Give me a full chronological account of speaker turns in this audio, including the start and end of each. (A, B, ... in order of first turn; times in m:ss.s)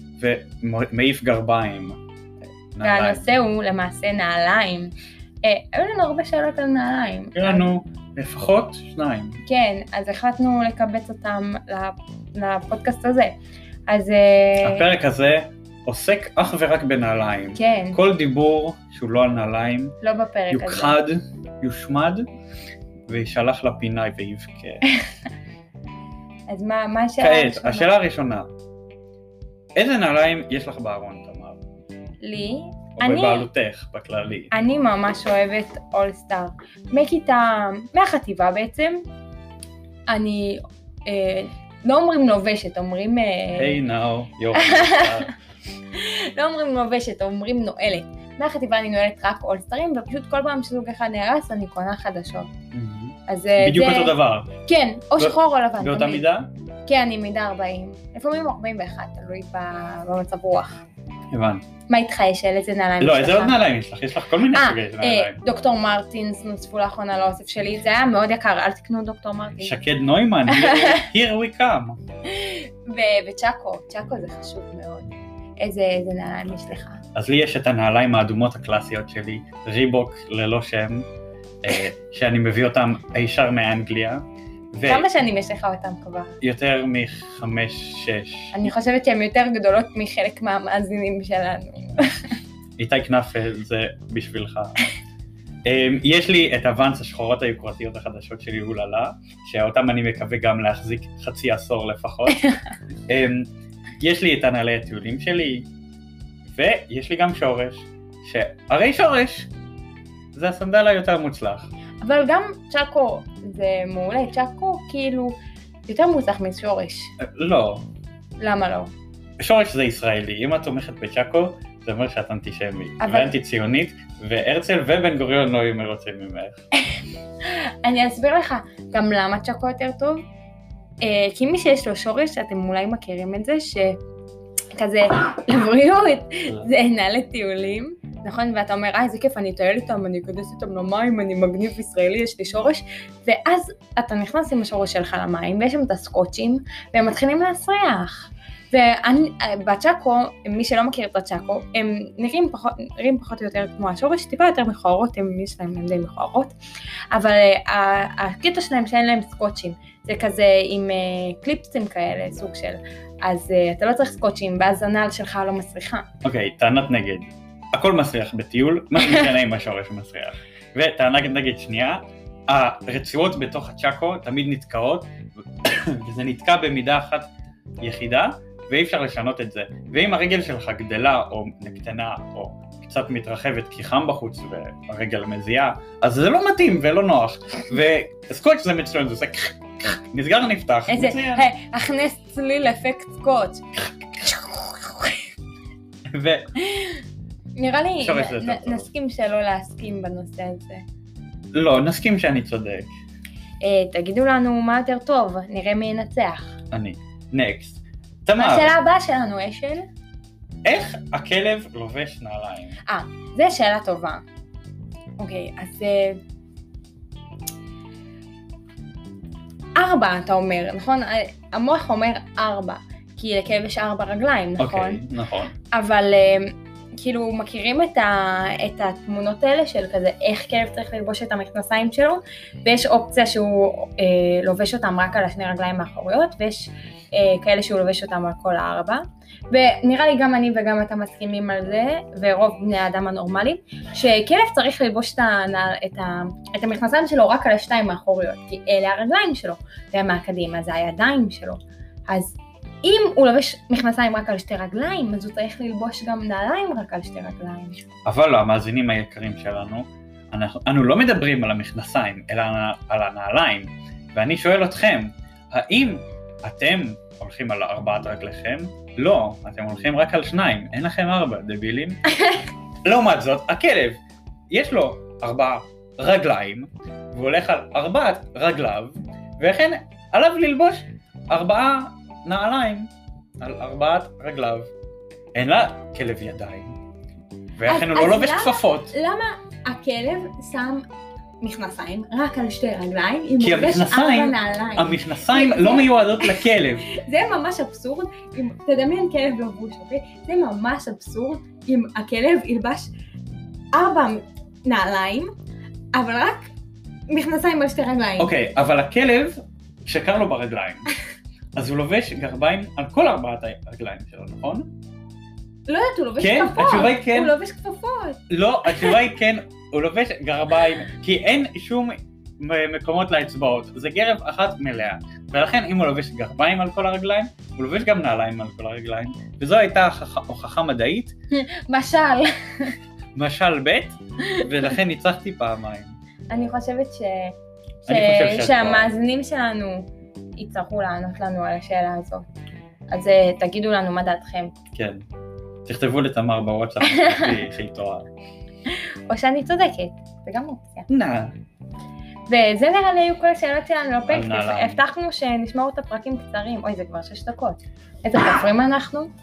0:00.2-0:02.0 A
0:02.8-0:03.3 A
0:02.8-0:07.7 B
0:07.4-0:09.4 A
0:09.5-0:13.4 B
0:13.9-0:14.9 B
0:14.6-0:20.0 A
0:17.6-0:18.0 B
0:20.0-0:21.0 B
0:20.5-0:22.2 A
0:23.1-0:24.8 A
0:26.5-0:27.9 B
0:27.2-0:28.5 A
0:29.8-0:31.6 A
0:32.2-0:33.5 B
0:33.0-0:34.5 A
0:34.5-0:39.0 B
0:40.1-0:43.8 B
0:43.6-0:45.3 A
0:44.5-0:45.3 B
0:45.9-0:52.5 B
0:52.7-0:54.5 A
0:53.3-0:56.2 B
0:55.2-0:56.5 A
0:56.9-1:00.8 B
1:01.3-1:01.6 A
1:01.9-1:03.6 B
1:03.0-1:05.4 A
1:04.5-1:09.7 B
1:09.6-1:12.0 A
1:10.5-1:11.0 B
1:12.3-1:17.0 B
1:17.2-1:21.1 A
1:21.6-1:25.1 A
1:24.9-1:26.3 B
1:26.4-1:28.6 A
1:28.5-1:32.3 B
1:32.8-1:34.7 A
1:35.6-1:42.4 A
1:43.1-1:43.5 A
1:44.0-1:45.7 A
1:46.5-1:49.5 A
1:50.3-1:51.7 A
1:52.0-1:55.4 B
1:55.9-1:57.1 B
1:57.2-1:57.9 A
1:58.4-1:58.9 B
1:59.4-2:06.6 A
2:03.0-2:03.3 B
2:07.8-2:10.2 B
2:11.0-2:14.0 B
2:14.8-2:36.6 B
2:37.1-2:46.1 B
2:46.2-2:57.3 A
2:57.8-3:11.5 A
3:10.9-3:15.2 B
3:16.1-3:16.5 A
3:16.7-3:17.0 B
3:17.6-3:20.8 B
3:18.0-3:18.9 A
3:21.5-3:22.9 A
3:23.6-3:26.6 B
3:26.7-3:28.7 A
3:28.4-3:29.9 B
3:30.6-3:32.8 A
3:32.9-3:34.2 B
3:35.2-3:36.2 B
3:39.8-3:45.0 B
3:44.6-3:45.5 A
3:45.7-4:17.8 B
4:18.1-4:32.0 A
4:32.8-4:34.0 A
4:34.5-4:44.7 A
4:45.4-4:46.8 A
4:47.6-4:48.9 A
4:47.6-4:50.8 B
4:51.4-5:02.9 B
4:53.4-4:56.9 A
5:03.7-5:05.3 B
5:05.9-5:06.5 B
5:07.1-5:08.3 B
5:08.2-5:10.9 A
5:11.6-5:14.7 A
5:15.7-5:19.0 B
5:16.2-5:17.3 A
5:18.3-5:31.1 A
5:31.3-5:32.8 B
5:33.2-5:36.0 A
5:36.3-5:42.2 B
5:37.9-5:38.9 A
5:42.9-5:44.6 B
5:44.7-5:45.0 A
5:45.6-5:48.1 A
5:46.8-5:47.4 B
5:48.7-5:50.9 B
5:50.9-5:51.4 A
5:52.3-5:59.1 B
5:54.1-5:54.8 A